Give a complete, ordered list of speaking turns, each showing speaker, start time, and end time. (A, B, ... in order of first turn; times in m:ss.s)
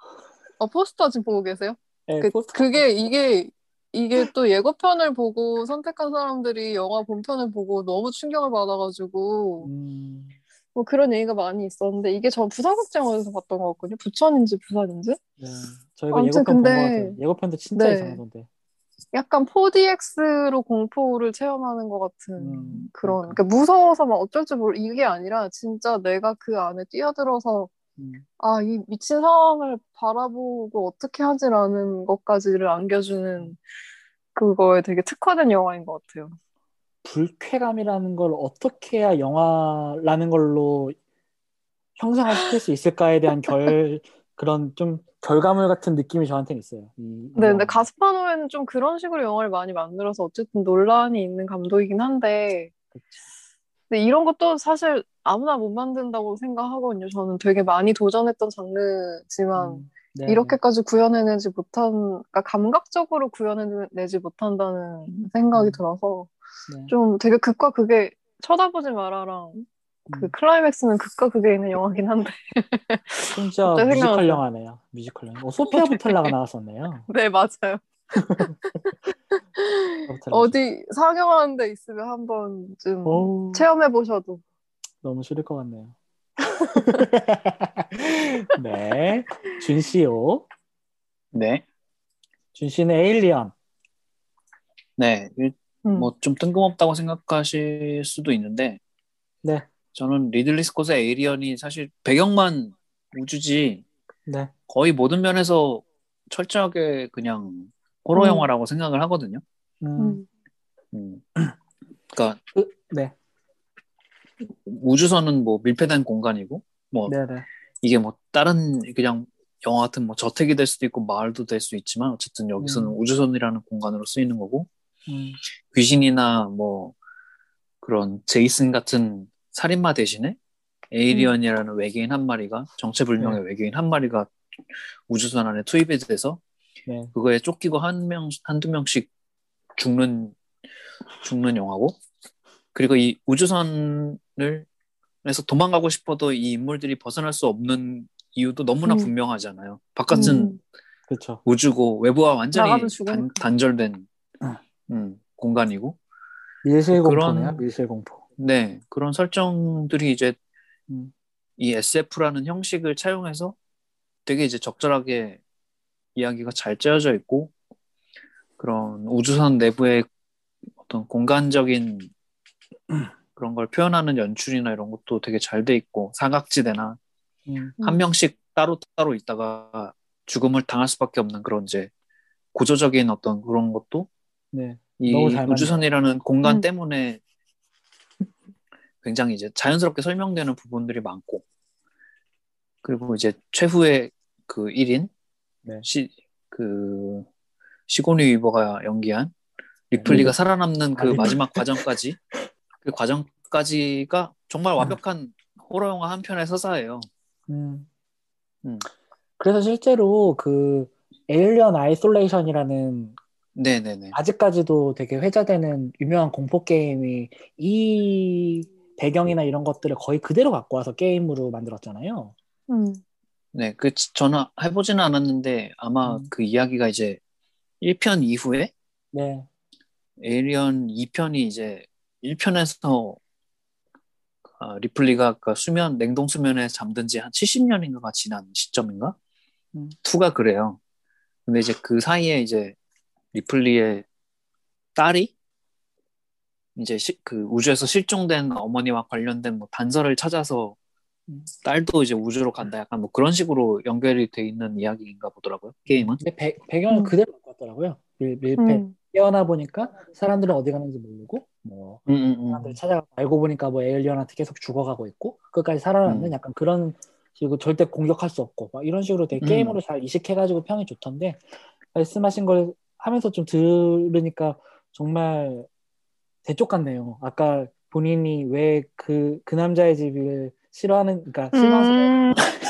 0:00.6-0:09.7 A
0:02.1-0:02.8 B
0:09.6-0:10.4 B
0:10.7-0:15.2 A
0:15.4-0:18.5 B
0:16.1-0:17.2 A
0:17.8-0:18.2 A
0:19.1-0:27.7 A
0:22.4-0:23.4 B
0:28.0-0:28.2 B
0:28.4-0:33.6 A
0:34.3-0:36.4 A
0:37.0-0:41.0 B
0:42.0-0:47.8 B
0:47.3-0:52.7 A
0:52.9-0:53.2 B
0:53.9-1:06.3 A
0:59.6-1:00.6 B
1:05.5-1:05.8 B
1:06.7-1:06.9 B
1:06.9-1:14.4 A
1:10.1-1:10.3 B
1:13.3-1:17.1 B
1:15.7-1:16.3 A
1:17.1-1:17.8 A
1:18.2-1:18.5 B
1:18.3-1:18.9 A
1:19.6-1:24.4 A
1:20.1-1:20.5 B
1:23.0-1:23.6 B
1:25.0-1:26.0 B
1:26.5-1:30.5 B
1:26.8-1:27.0 A
1:31.3-1:31.6 C
1:32.5-1:33.5 B
1:35.0-1:38.8 C
1:35.8-1:36.1 A
1:39.4-1:39.7 B
1:39.9-1:43.8 C
1:44.2-1:44.5 B
1:44.7-1:49.4 C
1:48.1-1:48.5 A
1:49.8-1:50.2 B
1:50.0-1:50.2 A
1:50.9-1:51.2 C
1:52.1-1:52.4 C
1:52.5-1:53.1 B
1:54.5-1:57.1 C
1:57.1-1:57.5 B
1:57.8-2:04.7 C
2:02.6-2:03.0 B
2:05.1-2:05.4 B
2:05.7-2:06.9 C
2:07.8-2:10.4 C
2:10.9-2:14.3 C
2:15.1-2:16.4 C
2:16.8-2:17.1 B
2:17.1-2:19.1 C
2:19.8-2:20.4 C
2:21.2-2:22.0 C
2:22.7-2:24.7 C
2:25.2-2:30.6 C
2:28.8-2:29.1 A
2:30.1-2:30.6 A
2:31.1-2:31.4 B
2:31.4-2:34.0 C
2:32.5-2:33.4 A
2:34.9-2:36.0 C
2:36.6-2:38.2 B
2:36.9-2:37.6 C
2:38.4-2:40.4 C
2:41.6-2:43.6 C
2:44.2-2:45.4 C
2:46.2-2:47.5 C
2:48.6-2:50.0 C
2:50.8-2:52.1 C
2:53.4-2:57.0 C
2:57.4-2:57.7 B
2:57.8-3:01.9 C
3:02.5-3:04.1 C
3:04.5-3:05.8 B
3:05.0-3:07.2 C
3:09.0-3:11.4 C
3:12.8-3:15.1 C
3:15.8-3:17.3 C
3:17.9-3:19.3 C
3:19.9-3:22.2 C
3:20.0-3:20.3 B
3:21.0-3:21.8 B
3:22.8-3:27.1 C
3:27.5-3:27.9 B
3:29.4-3:33.2 B
3:33.5-3:34.2 C
3:34.1-3:42.3 B
3:42.7-3:43.0 A
3:43.5-3:47.2 C
3:46.0-3:46.3 B
3:47.8-3:48.7 C
3:49.1-3:49.5 B
3:50.2-3:53.2 C
3:54.6-3:59.2 C
4:00.0-4:00.8 C
4:01.4-4:02.8 C
4:03.3-4:04.0 C
4:04.9-4:05.3 C
4:06.8-4:10.8 C
4:11.6-4:16.2 C
4:15.9-4:31.4 B
4:18.6-4:18.9 A
4:22.1-4:22.8 C
4:26.0-4:26.3 C
4:29.4-4:29.8 C
4:31.9-4:35.7 B
4:36.4-4:42.1 B
4:41.5-4:42.5 A